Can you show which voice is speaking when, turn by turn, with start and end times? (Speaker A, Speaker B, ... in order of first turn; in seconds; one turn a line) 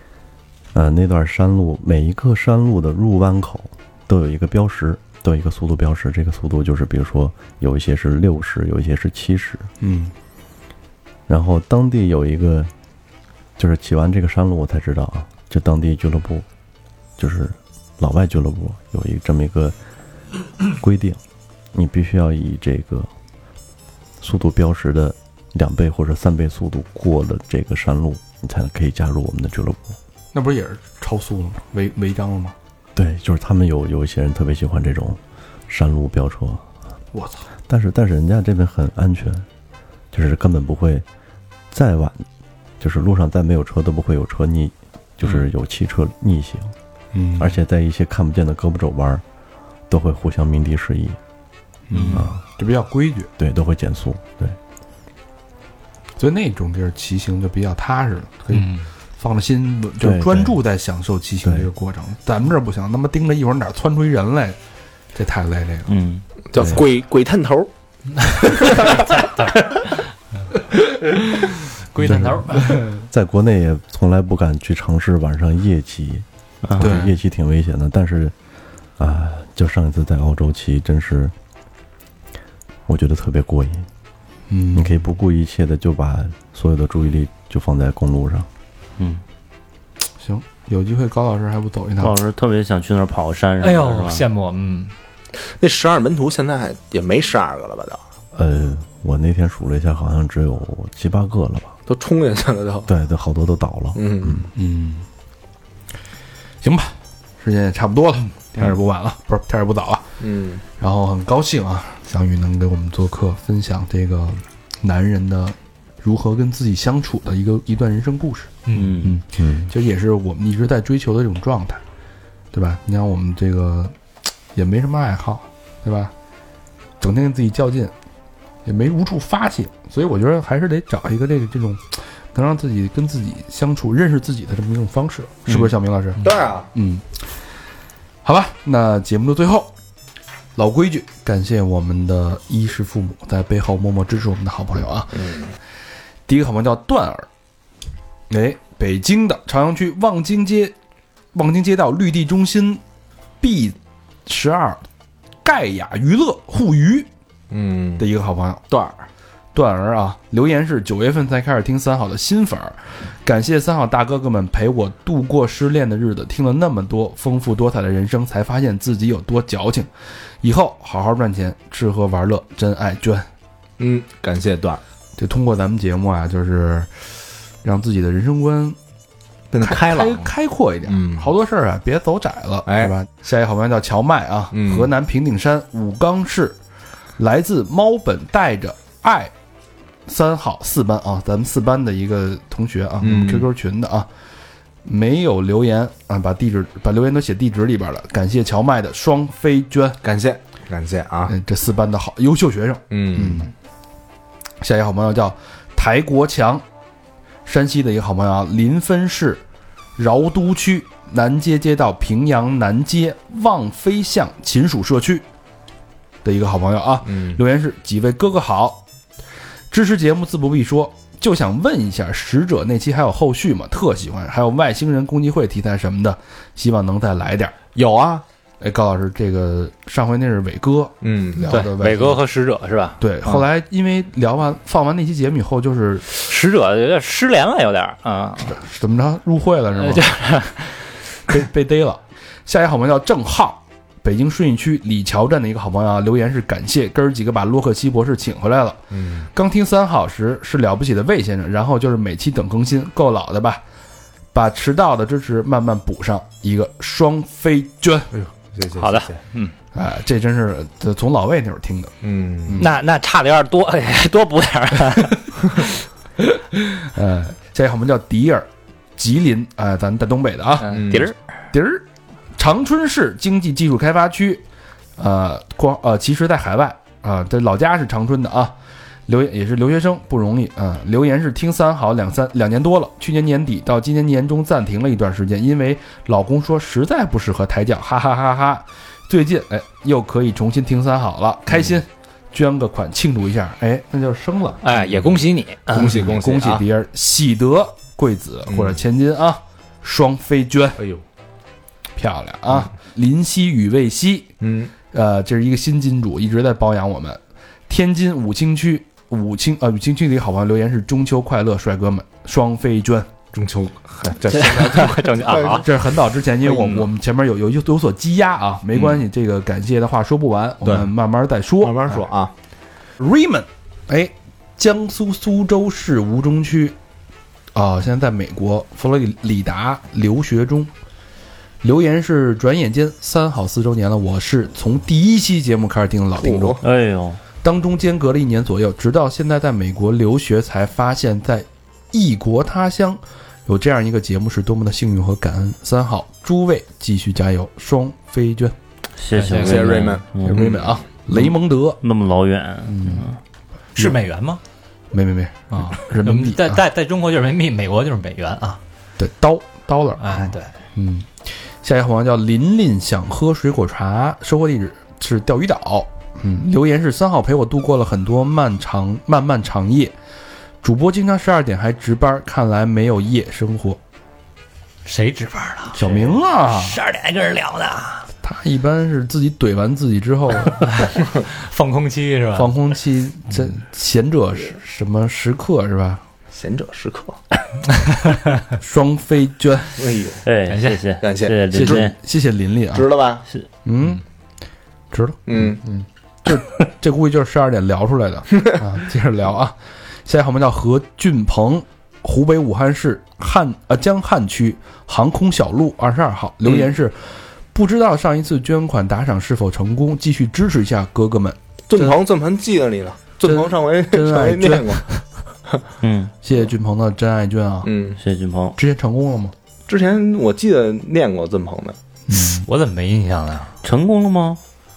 Speaker A: 0.7-9.7
Speaker B: 9.8-10.1
Speaker A: 11.3-12.7
Speaker A: 13.6-16.5
Speaker A: 17.2-19.8
Speaker A: 20.7-21.2
Speaker A: 21.7-23.1
Speaker A: 24.2-30.0
Speaker B: 30.3-32.6
Speaker A: 33.0-36.6
Speaker B: 37.1-37.5
Speaker A: 37.7-39.5
Speaker A: 40.1-41.0
Speaker A: 41.7-42.3
Speaker A: 42.8-46.7
Speaker B: 47.1-47.6
Speaker A: 47.4-49.2
Speaker A: 49.9-51.2
Speaker B: 51.9-53.3
Speaker C: 51.9-52.2
Speaker A: 52.1-52.4
Speaker A: 53.4-54.6
Speaker B: 56.2-64.6
Speaker D: 58.5-58.9
Speaker A: 60.0-60.6
Speaker A: 61.4-61.7
Speaker B: 65.1-65.9
Speaker C: 65.9-66.2
Speaker E: 66.5-67.7
Speaker A: 66.6-66.8
Speaker E: 68.7-69.0
Speaker D: 71.9-72.8
Speaker A: 72.0-76.3
Speaker B: 72.1-73.0
Speaker A: 76.8-78.3
Speaker B: 76.8-77.1
Speaker A: 79.0-81.3
Speaker A: 82.9-83.9
Speaker B: 84.5-85.1
Speaker A: 84.7-88.5
Speaker B: 90.2-92.2
Speaker C: 92.0-94.2
Speaker D: 93.6-94.9
Speaker E: 95.6-98.0
Speaker A: 98.3-101.8
Speaker E: 101.9-102.9
Speaker A: 102.9-104.5
Speaker E: 104.0-104.5
Speaker B: 104.5-105.1
Speaker B: 106.6-110.0
Speaker E: 110.2-110.6
Speaker B: 110.8-121.8
Speaker D: 118.7-119.0
Speaker C: 118.7-119.2
Speaker A: 119.4-119.7
Speaker B: 122.5-123.9
Speaker B: 124.5-126.1
Speaker B: 127.0-127.9
Speaker B: 128.7-137.1
Speaker E: 136.2-136.7
Speaker B: 138.2-139.7
Speaker B: 140.6-145.2
Speaker E: 145.2-145.5
Speaker B: 146.3-147.3
Speaker B: 148.3-150.8
Speaker B: 151.3-152.8
Speaker B: 153.4-154.9
Speaker B: 155.4-157.1
Speaker E: 157.5-158.1
Speaker B: 158.0-158.6
Speaker E: 158.7-159.0
Speaker B: 159.5-169.9
Speaker B: 170.4-173.3
Speaker E: 173.8-174.8
Speaker B: 175.2-176.9
Speaker B: 177.6-178.8
Speaker E: 179.5-180.3
Speaker B: 179.6-186.6
Speaker E: 180.9-181.3
Speaker E: 182.7-182.9
Speaker E: 184.5-184.9
Speaker B: 187.2-189.3
Speaker B: 190.1-194.1
Speaker E: 193.0-193.5
Speaker B: 194.8-200.0
Speaker E: 200.0-201.3
Speaker B: 201.3-203.5
Speaker E: 202.9-203.5
Speaker B: 204.6-206.6
Speaker B: 207.5-209.4
Speaker B: 210.0-215.2
Speaker B: 216.2-218.8
Speaker E: 217.1-217.4
Speaker B: 219.7-227.5
Speaker E: 227.8-228.2
Speaker B: 228.6-232.2
Speaker E: 231.0-231.5
Speaker D: 231.5-233.4
Speaker B: 233.0-236.1
Speaker D: 236.1-238.6
Speaker B: 238.4-240.1
Speaker D: 239.8-240.8
Speaker B: 241.3-248.8
Speaker E: 248.9-249.3
Speaker B: 249.3-253.6
Speaker B: 254.3-258.1
Speaker E: 258.1-259.2
Speaker D: 258.8-259.5
Speaker B: 259.7-261.9
Speaker E: 262.0-262.6
Speaker D: 262.6-265.2
Speaker B: 266.6-270.8
Speaker D: 270.6-271.2
Speaker E: 270.7-271.1
Speaker B: 271.5-271.9
Speaker B: 272.4-274.4
Speaker B: 275.0-278.5
Speaker B: 279.1-294.6
Speaker D: 294.6-295.9
Speaker E: 294.7-296.6
Speaker B: 295.8-300.8
Speaker E: 298.5-298.8
Speaker B: 302.0-304.3
Speaker E: 304.4-304.8
Speaker B: 304.9-313.1
Speaker E: 313.3-315.7
Speaker D: 314.3-315.7
Speaker B: 315.6-322.1
Speaker D: 316.5-316.8
Speaker E: 318.7-319.0
Speaker E: 320.6-320.9
Speaker E: 321.6-322.3
Speaker B: 323.0-326.8
Speaker B: 327.6-330.7
Speaker B: 331.6-336.6
Speaker E: 336.2-336.6
Speaker C: 336.6-337.2
Speaker B: 337.4-348.6
Speaker C: 349.0-350.5
Speaker D: 349.1-349.9
Speaker E: 349.4-350.8
Speaker B: 350.2-351.8
Speaker C: 351.1-353.2
Speaker B: 352.6-353.1
Speaker D: 353.8-354.4
Speaker B: 354.9-356.6
Speaker D: 355.5-358.6
Speaker B: 359.0-369.9
Speaker D: 360.0-360.5
Speaker B: 370.6-373.8
Speaker D: 374.9-378.1
Speaker B: 375.8-376.8
Speaker B: 378.2-380.7
Speaker D: 381.4-382.5
Speaker B: 382.3-386.0
Speaker E: 386.3-387.2
Speaker B: 388.6-389.7
Speaker E: 389.8-390.2
Speaker C: 390.2-391.9
Speaker D: 390.5-390.8
Speaker E: 391.0-391.8
Speaker B: 391.5-392.9
Speaker E: 392.7-393.2
Speaker B: 393.6-394.0
Speaker B: 394.9-395.5
Speaker E: 395.3-395.8
Speaker B: 396.3-412.0
Speaker E: 411.7-414.8
Speaker B: 413.2-415.0
Speaker C: 415.8-416.1
Speaker B: 416.2-417.7
Speaker E: 417.6-418.0
Speaker C: 418.0-418.6
Speaker B: 418.6-419.3
Speaker E: 419.7-421.8
Speaker B: 422.1-422.4
Speaker D: 422.1-423.5
Speaker C: 423.6-424.4